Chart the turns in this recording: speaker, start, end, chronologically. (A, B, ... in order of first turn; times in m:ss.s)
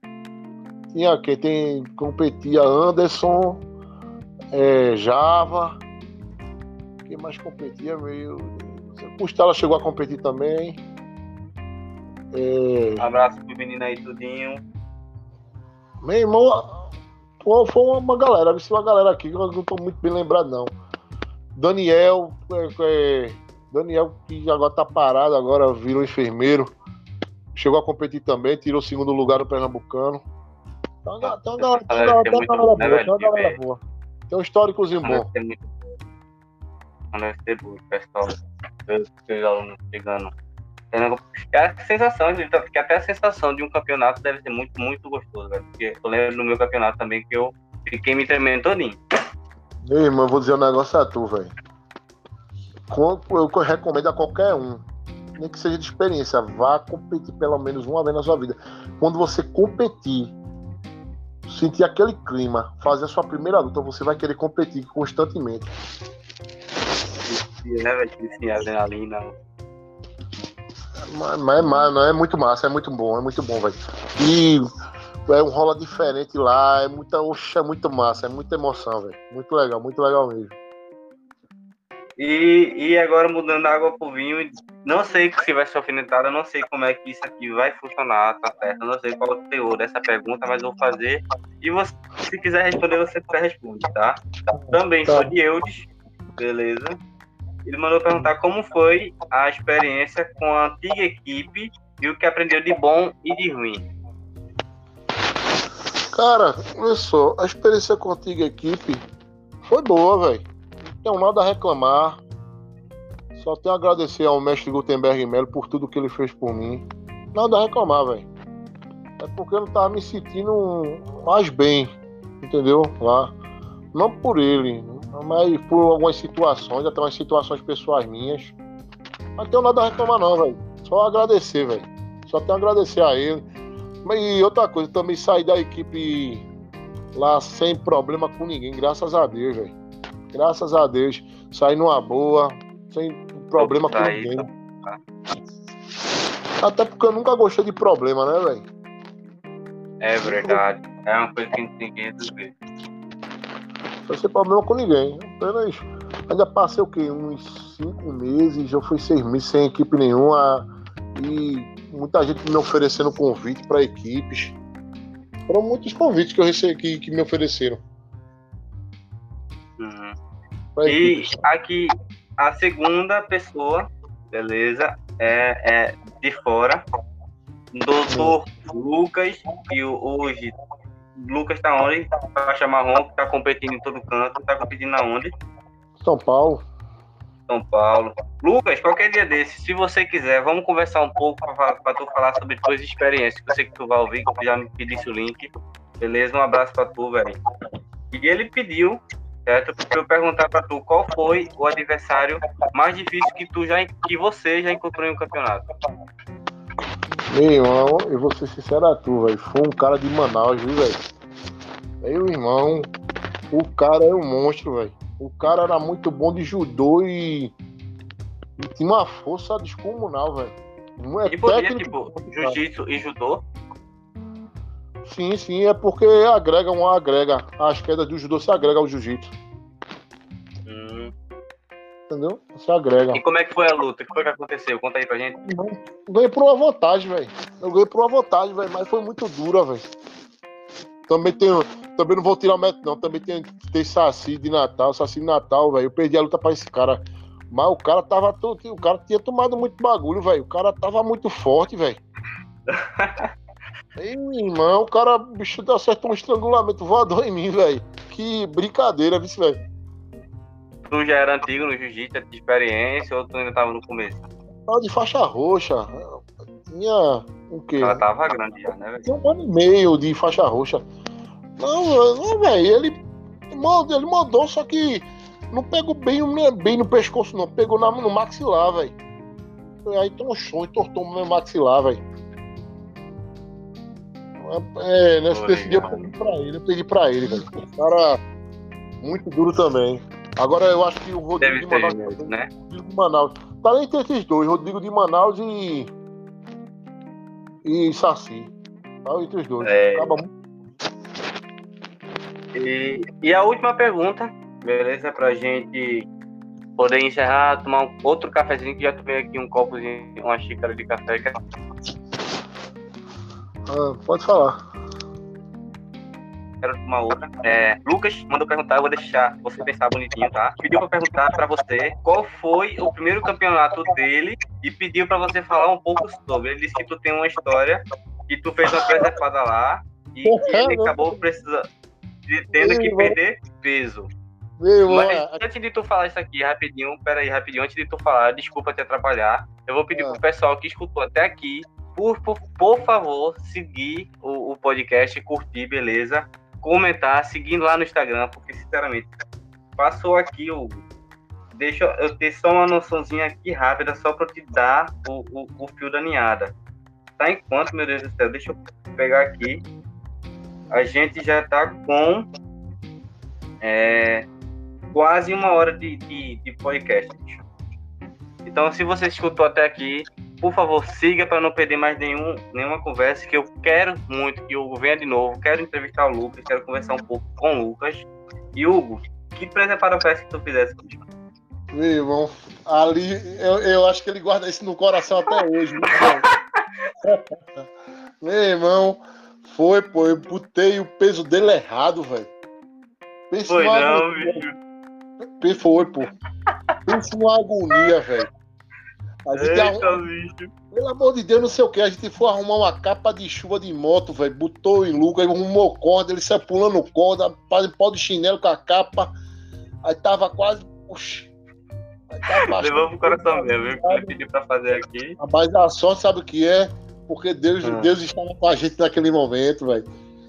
0:00.9-0:03.6 A
0:04.5-0:05.8 A
0:07.1-0:10.8 A
0:12.3-0:13.1 A
0:13.0-0:14.6 B
0:16.0-0:16.9 A
0:17.4-0:20.7 A
0:21.6-0:26.7 A
0:27.6-0:30.2 A
0:31.0-0:35.3 A
0:31.2-0:33.6 B
0:35.0-0:36.0 B
0:37.1-0:40.3 B
0:40.9-0:49.0 B
0:49.8-0:51.5 A
0:52.9-0:54.8 A
0:55.4-1:00.3 A
1:01.5-1:05.7 A
1:07.2-1:09.4 B
1:11.1-1:14.6 A
1:15.3-1:20.6 A
1:22.2-1:34.2 B
1:34.6-1:35.3 A
1:34.7-1:37.0 B
1:37.7-1:43.8 B
1:46.1-1:49.0 A
1:49.7-1:50.4 A
1:51.0-1:52.2 A
1:53.4-1:58.3 A
1:59.2-2:03.3 A
2:03.9-2:08.6 A
2:09.4-2:13.4 A
2:14.0-2:16.5 A
2:17.2-2:19.8 A
2:20.3-2:24.5 A
2:23.6-2:25.0 B
2:26.6-2:28.7 A
2:30.0-2:32.6 B
2:30.2-2:30.6 A
2:34.1-2:44.6 A
2:45.5-2:47.8 A
2:49.8-2:50.2 B
2:50.8-2:51.4 A
2:50.8-2:56.8 B
2:57.7-3:00.6 B
2:58.1-2:58.4 A
3:01.2-3:05.3 B
3:06.0-3:06.6 A
3:07.5-3:17.4 B
3:18.1-3:25.7 B
3:27.3-3:31.0 A
3:32.0-3:32.9 A
3:33.5-3:37.5 A
3:38.6-3:42.6 A
3:41.3-3:43.4 B
3:45.0-3:49.3 A
3:50.7-3:51.1 B
3:52.1-3:53.2 A
3:53.1-3:55.4 B
3:55.4-3:59.8 A
4:01.1-4:12.0 A
4:12.7-4:13.3 B
4:14.0-4:19.6 A
4:20.9-4:24.3 B
4:24.7-4:28.0 A
4:27.8-4:29.2 B
4:29.0-4:30.8 A
4:31.6-4:39.0 A
4:39.8-4:42.0 A
4:44.4-4:48.2 A
4:45.3-4:46.1 B
4:49.0-4:55.9 A
4:51.4-4:52.5 B
4:57.6-4:58.5 A
4:59.0-5:00.3 A
4:59.6-5:00.2 B
5:02.6-5:06.1 B
5:06.8-5:11.4 B
5:13.7-5:14.6 A
5:16.6-5:31.7 B
5:28.8-5:29.0 A
5:30.2-5:31.2 A
5:32.3-5:34.1 B
5:32.6-5:33.2 A
5:34.6-5:35.4 A
5:34.9-5:49.1 B
5:39.9-5:40.2 A
5:49.8-5:50.8 B
5:51.6-5:56.5 B
5:57.2-5:59.6 B
6:00.7-6:02.3 B
6:03.6-6:04.3 B
6:04.9-6:07.4 B
6:08.4-6:21.0 B
6:21.7-6:26.2 A
6:25.8-6:26.3 B
6:27.0-6:27.6 A
6:28.2-6:32.3 A
6:33.3-6:34.4 A
6:33.5-6:34.6 B
6:35.4-6:36.1 A
6:36.9-6:38.3 A
6:39.3-6:40.0 A
6:39.3-6:40.5 B
6:40.7-6:49.1 A
6:49.8-6:51.3 A
6:52.1-6:54.2 A
6:52.3-6:55.2 B
6:55.2-6:59.9 A
6:57.6-6:57.9 B